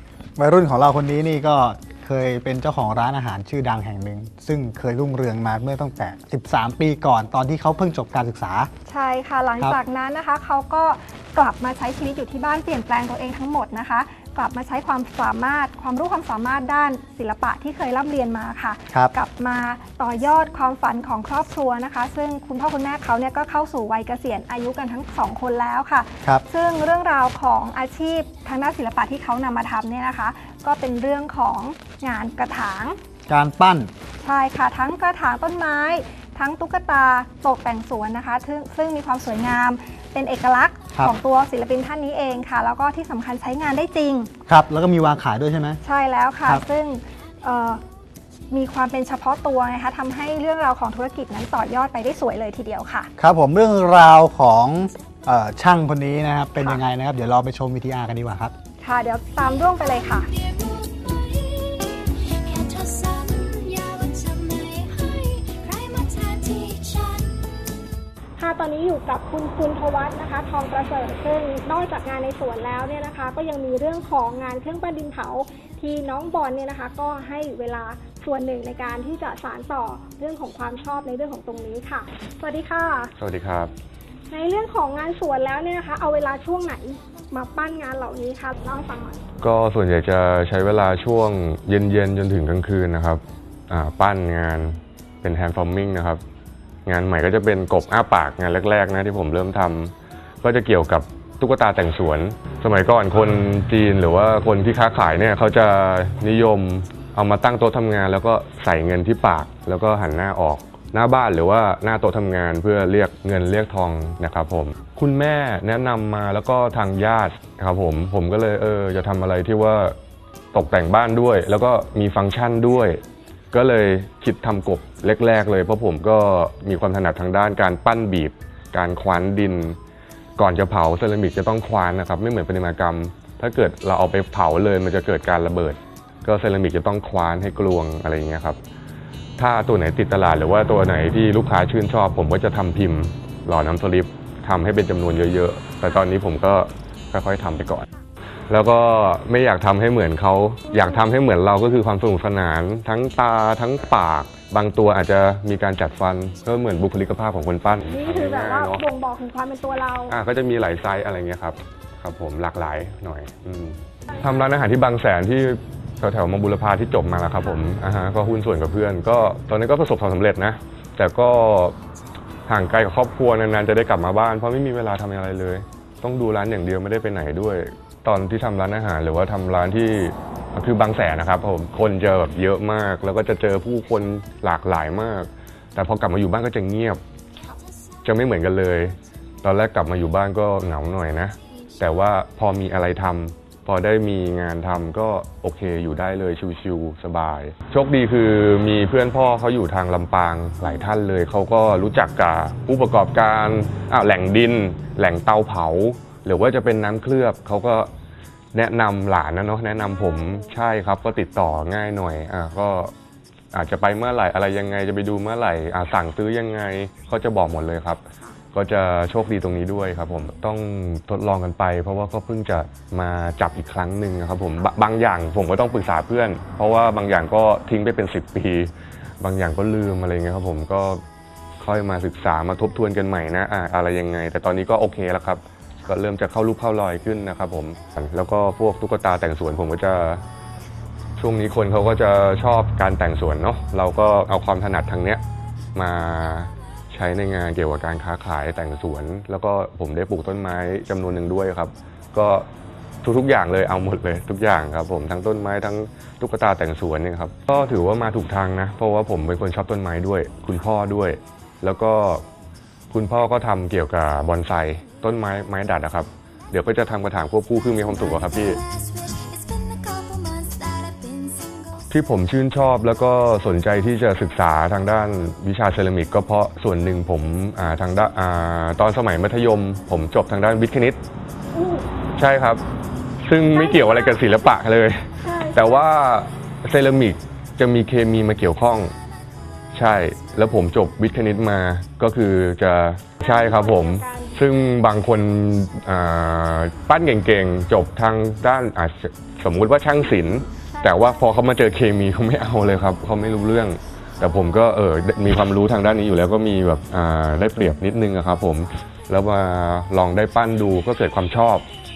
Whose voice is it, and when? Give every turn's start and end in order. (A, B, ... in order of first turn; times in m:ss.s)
0:00.4-0:08.7 A
0:08.9-0:33.0 B
0:33.3-0:33.9 A
0:34.2-0:44.3 B
0:44.5-0:45.8 A
0:45.8-0:47.8 B
0:48.5-0:53.1 B
0:53.2-0:58.5 A
0:58.8-1:00.3 B
0:59.6-1:07.6 C
1:08.4-1:23.1 B
1:23.2-1:23.7 D
1:24.3-1:29.2 B
1:29.4-1:36.2 D
1:36.9-2:00.0 D
2:00.5-2:03.0 D
2:03.5-2:09.8 D
2:10.4-2:18.6 D
2:19.4-2:27.9 D
2:28.5-2:38.8 D
2:37.9-2:40.2 B
2:40.1-2:51.8 D
2:52.5-3:07.0 D
3:08.0-3:27.9 D
3:28.5-3:32.9 D
3:29.9-3:30.5 B
3:33.5-3:51.0 D
3:51.6-4:00.2 D
4:01.2-4:05.2 D
4:05.8-4:12.5 D
4:13.0-4:22.2 D
4:22.9-4:28.6 D
4:27.8-4:31.8 C
4:31.9-4:41.0 D
4:41.5-4:41.9 B
4:42.2-4:42.6 D
4:43.2-4:48.9 D
4:43.5-4:44.3 B
4:45.2-4:45.8 B
4:49.7-5:11.7 D
4:53.2-4:54.4 B
5:00.7-5:01.0 B